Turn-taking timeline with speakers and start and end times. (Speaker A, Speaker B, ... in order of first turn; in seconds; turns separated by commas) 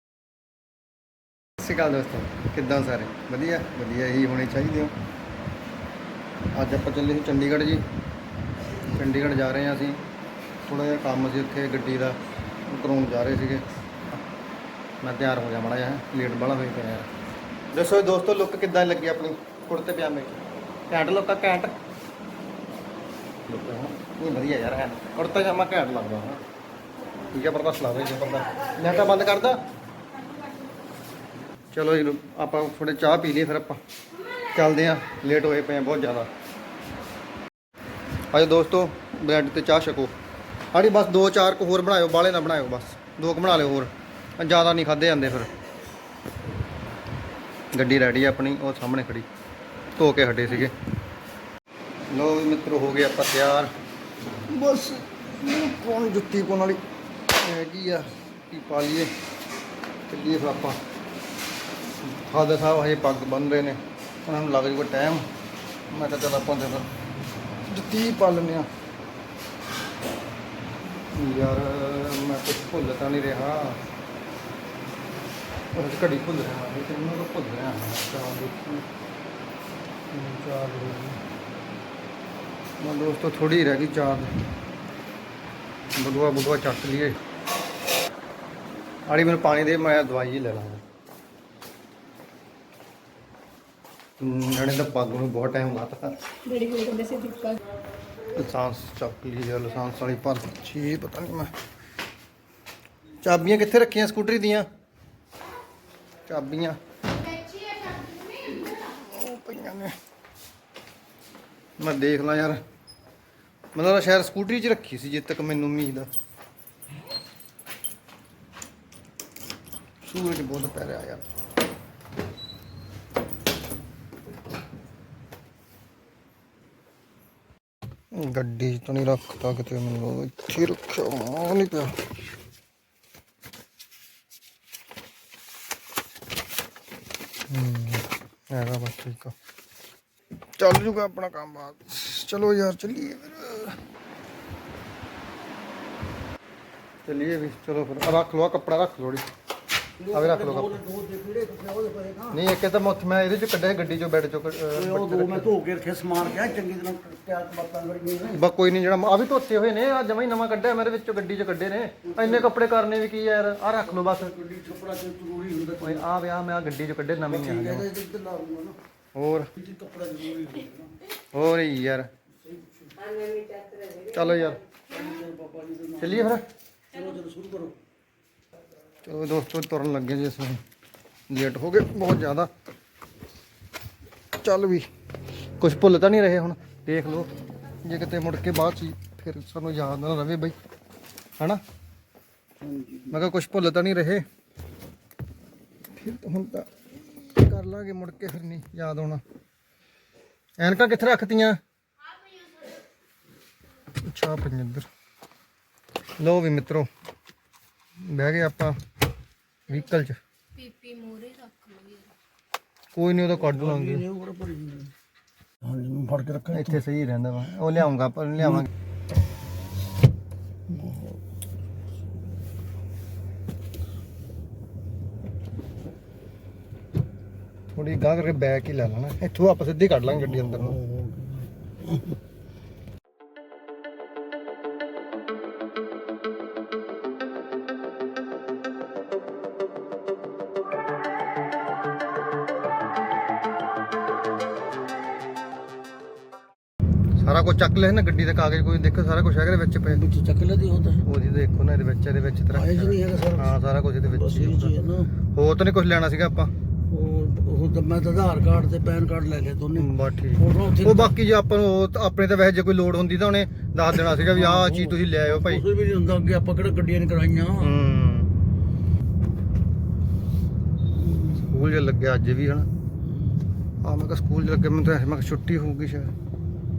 Speaker A: 1.6-4.9, Speaker A: 6.5-7.8, Speaker A: 8.9-10.0, Speaker A: 10.6-14.2, Speaker A: 15.0-17.1, Speaker A: 17.7-21.7, Speaker A: 23.5-26.4, Speaker A: 27.3-29.6, Speaker A: 31.7-33.8, Speaker A: 34.5-36.3, Speaker A: 38.3-40.1, Speaker A: 40.7-45.5, Speaker A: 47.7-49.3, Speaker A: 50.0-50.7, Speaker A: 52.1-53.7, Speaker A: 54.5-59.1, Speaker A: 60.1-60.8, Speaker A: 62.0-65.3, Speaker A: 65.9-66.9, Speaker A: 67.7-68.7, Speaker A: 71.1-73.8, Speaker A: 75.7-78.8, Speaker A: 80.1-81.2, Speaker A: 82.8-84.3, Speaker A: 86.0-87.2, Speaker A: 89.1-90.8, Speaker A: 94.2-96.2, Speaker B: 96.5-97.5, Speaker A: 98.3-101.5, Speaker A: 103.2-104.7, Speaker A: 106.3-106.8, Speaker A: 108.8-110.0, Speaker A: 111.8-112.6, Speaker A: 113.8-116.1, Speaker A: 120.0-121.3, Speaker A: 128.1-132.0, Speaker A: 137.5-139.3, Speaker A: 140.6-143.8, Speaker A: 147.1-149.3, Speaker C: 150.0-152.4, Speaker A: 150.1-150.8, Speaker A: 152.3-155.5, Speaker C: 154.7-158.4, Speaker A: 158.3-164.3, Speaker C: 162.1-162.5, Speaker C: 163.9-166.1, Speaker A: 165.8-167.9, Speaker C: 167.3-168.8, Speaker A: 169.2-169.5, Speaker C: 169.6-170.9, Speaker A: 171.3-172.1, Speaker C: 172.4-173.1, Speaker A: 174.1-174.6, Speaker C: 174.9-176.4, Speaker A: 176.0-176.4, Speaker C: 176.9-177.8, Speaker A: 179.0-180.6, Speaker A: 181.3-182.5, Speaker A: 184.4-184.9, Speaker A: 185.6-187.3, Speaker A: 187.8-190.6, Speaker C: 192.6-193.2, Speaker A: 193.1-194.2, Speaker A: 195.9-199.2, Speaker A: 200.6-201.6, Speaker A: 204.0-204.9, Speaker A: 206.2-206.9, Speaker A: 208.0-208.8, Speaker A: 209.7-210.2, Speaker B: 210.6-212.1, Speaker A: 212.9-214.1, Speaker C: 213.3-214.9, Speaker C: 215.6-216.8, Speaker A: 216.5-218.7, Speaker C: 220.7-221.2, Speaker A: 227.7-230.8, Speaker C: 230.1-232.2, Speaker A: 247.2-250.0, Speaker C: 249.9-251.1, Speaker A: 251.1-254.8, Speaker C: 252.5-255.1, Speaker A: 255.3-256.5, Speaker C: 256.9-261.1, Speaker A: 259.8-265.6, Speaker C: 264.2-267.7, Speaker A: 267.6-268.3, Speaker C: 271.0-271.5, Speaker A: 271.5-272.7, Speaker A: 273.8-276.1